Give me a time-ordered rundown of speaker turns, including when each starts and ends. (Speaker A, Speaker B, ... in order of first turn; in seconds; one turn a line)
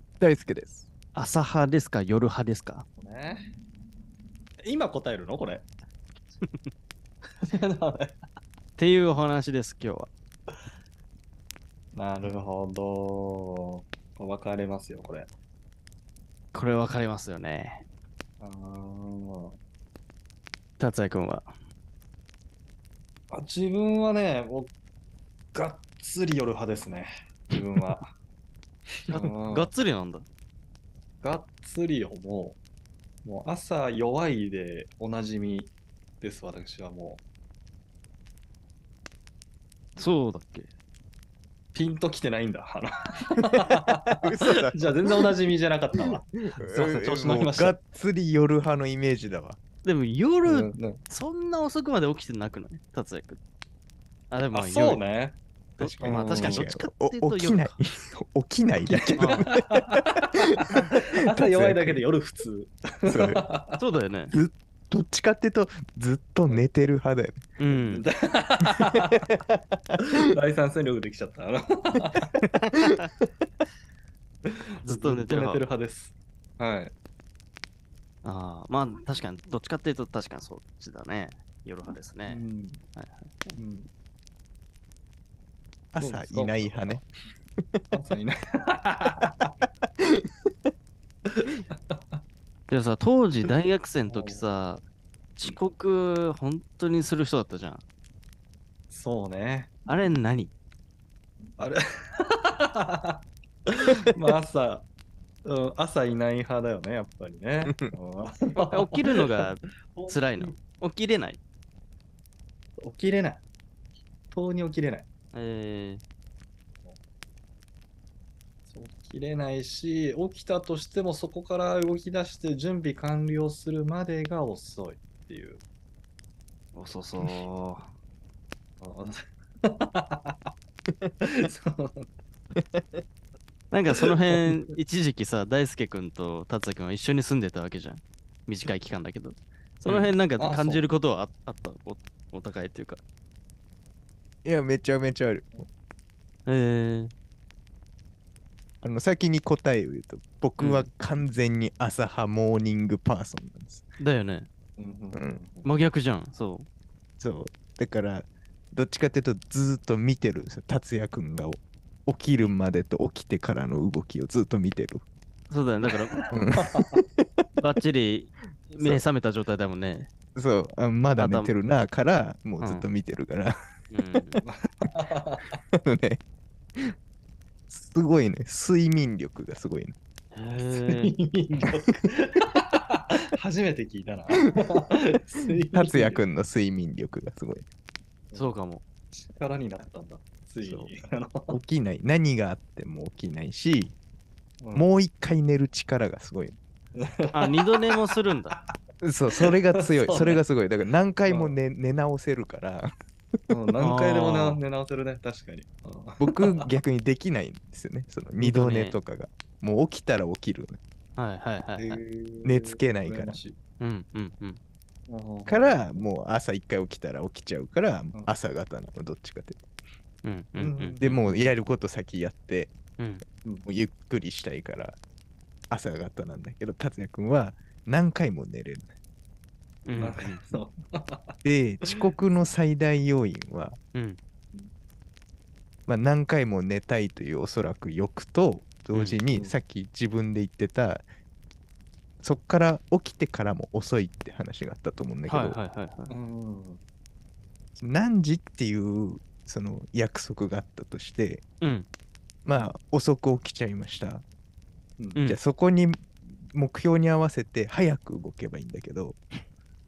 Speaker A: 0.2-0.9
Speaker B: 1.1-2.9
Speaker C: 3.0-3.5
Speaker C: 4.6-5.7
Speaker B: 6.4-6.7
Speaker C: 7.4-8.2
Speaker B: 8.8-10.1
Speaker C: 11.9-15.3
Speaker B: 16.5-17.8
Speaker C: 18.4-19.6
Speaker B: 20.8-21.5
Speaker C: 23.3-24.7
Speaker C: 25.5-28.1
Speaker B: 29.1-30.2
Speaker C: 29.1-29.7
Speaker C: 31.2-32.6
Speaker C: 33.2-37.2
Speaker B: 40.0-40.7
Speaker C: 41.7-47.8
Speaker A: 43.5-45.2
Speaker A: 46.0-49.6
Speaker B: 49.8-53.4
Speaker C: 50.4-51.0
Speaker B: 54.3-55.0
Speaker C: 54.5-55.4
Speaker B: 55.8-57.8
Speaker A: 55.8-62.0
Speaker C: 56.0-56.7
Speaker C: 58.9-63.8
Speaker B: 59.2-59.5
Speaker A: 63.1-63.4
Speaker B: 63.8-64.3
Speaker A: 64.3-67.5
Speaker B: 67.6-68.1
Speaker C: 67.9-69.3
Speaker A: 68.8-70.0
Speaker C: 70.0-72.3
Speaker B: 72.7-73.0
Speaker B: 74.8-75.6
Speaker C: 74.8-76.9
Speaker B: 78.2-82.4
Speaker C: 82.2-82.8
Speaker B: 82.9-83.5
Speaker C: 83.5-83.9
Speaker A: 85.9-87.0
Speaker C: 86.0-87.0
Speaker A: 87.6-87.9
Speaker C: 87.9-89.5
Speaker A: 90.0-90.5
Speaker C: 91.2-92.2
Speaker B: 92.7-94.8
Speaker C: 94.1-94.4
Speaker B: 95.4-97.8
Speaker C: 98.9-99.8
Speaker B: 99.9-100.5
Speaker C: 101.6-104.8
Speaker C: 105.4-109.2
Speaker B: 108.7-111.4
Speaker C: 109.9-110.5
Speaker C: 112.8-113.4
Speaker C: 114.3-115.1
Speaker B: 115.3-116.0
Speaker C: 118.7-125.6
Speaker B: 126.7-127.9
Speaker C: 128.8-130.5
Speaker C: 131.2-132.1
Speaker A: 132.5-133.0
Speaker B: 133.7-143.0
Speaker C: 140.4-140.9
Speaker A: 144.4-145.6
Speaker B: 146.4-147.1
Speaker A: 148.8-153.9
Speaker B: 150.6-150.9
Speaker B: 154.0-154.5
Speaker C: 154.8-155.7
Speaker A: 155.1-155.4
Speaker B: 155.6-156.7
Speaker A: 157.2-165.0
Speaker B: 165.5-166.2
Speaker C: 166.1-166.9
Speaker A: 166.3-167.5
Speaker B: 167.6-170.1
Speaker A: 168.8-169.0
Speaker A: 170.3-173.6
Speaker B: 171.2-171.5
Speaker B: 172.6-172.9
Speaker B: 173.9-174.4
Speaker C: 174.4-175.5
Speaker A: 175.7-176.2
Speaker A: 177.7-179.9
Speaker B: 180.3-181.1
Speaker C: 180.6-186.2
Speaker A: 185.7-187.7
Speaker B: 188.3-188.8
Speaker C: 189.1-191.6
Speaker A: 190.6-190.9
Speaker A: 191.5-193.9
Speaker C: 194.6-194.9
Speaker A: 194.7-196.6
Speaker C: 196.9-197.9
Speaker B: 197.3-198.6
Speaker A: 199.0-202.9
Speaker C: 199.3-200.4
Speaker C: 201.3-201.6
Speaker C: 203.5-206.7
Speaker B: 203.8-204.6
Speaker A: 206.2-210.8
Speaker B: 208.4-209.0
Speaker B: 211.2-212.0
Speaker C: 211.8-213.6
Speaker A: 212.4-213.4
Speaker B: 213.8-214.6
Speaker C: 215.1-216.0
Speaker A: 215.5-219.6
Speaker B: 220.2-221.3
Speaker C: 220.6-221.0
Speaker A: 221.0-222.7
Speaker B: 223.0-223.2
Speaker A: 223.7-225.0
Speaker A: 225.7-228.9
Speaker B: 229.8-230.4
Speaker C: 230.0-231.3
Speaker A: 231.4-233.8
Speaker A: 235.9-241.0
Speaker B: 238.9-239.2
Speaker C: 239.3-239.6
Speaker A: 242.2-245.6
Speaker B: 245.3-246.1
Speaker C: 246.1-246.8
Speaker A: 247.8-251.4
Speaker B: 251.6-251.9
Speaker A: 252.4-254.2
Speaker A: 255.2-259.2